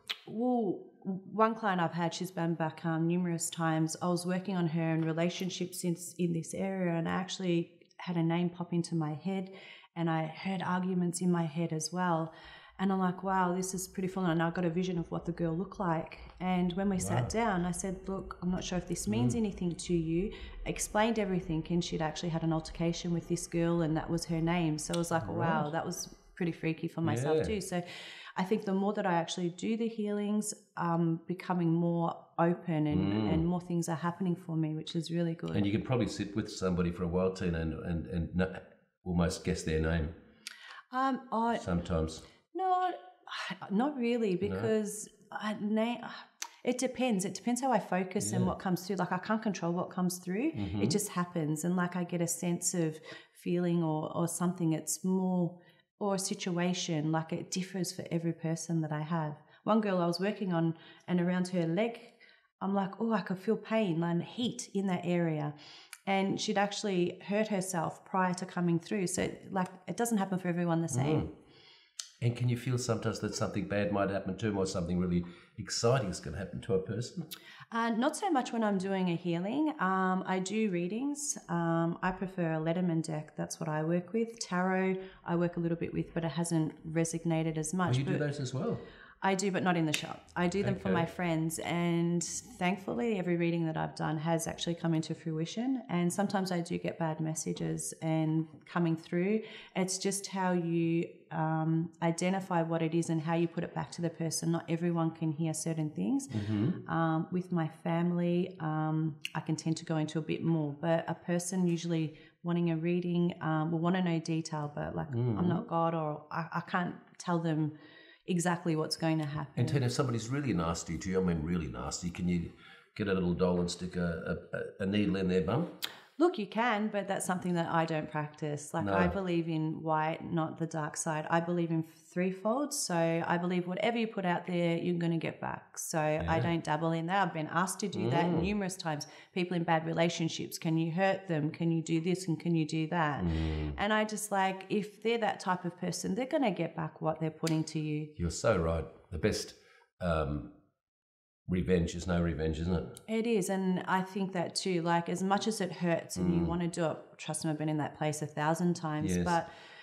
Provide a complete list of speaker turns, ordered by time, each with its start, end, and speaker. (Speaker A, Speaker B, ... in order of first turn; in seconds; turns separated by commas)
Speaker A: 0.2-35.7, Speaker B: 17.0-17.3, Speaker B: 19.1-19.4, Speaker B: 25.2-25.7, Speaker B: 27.0-27.6, Speaker B: 32.9-33.4, Speaker B: 35.5-40.2, Speaker A: 40.9-41.6, Speaker B: 41.5-42.2, Speaker A: 42.5-65.5, Speaker B: 44.4-44.7, Speaker B: 48.2-48.5, Speaker B: 50.5-51.0, Speaker A: 66.1-71.3, Speaker B: 70.9-71.3, Speaker B: 72.2-77.3, Speaker A: 77.7-88.2, Speaker B: 87.9-88.8, Speaker A: 89.2-117.7, Speaker B: 90.6-91.1, Speaker B: 106.3-106.8, Speaker B: 115.1-115.6, Speaker A: 118.3-119.8, Speaker B: 119.5-125.7, Speaker A: 126.2-148.1, Speaker B: 128.8-129.1, Speaker B: 136.2-136.5, Speaker B: 137.9-138.5, Speaker B: 143.2-143.8, Speaker B: 148.2-150.5, Speaker B: 151.5-153.0, Speaker A: 153.1-159.5, Speaker B: 156.2-156.5, Speaker B: 159.0-159.4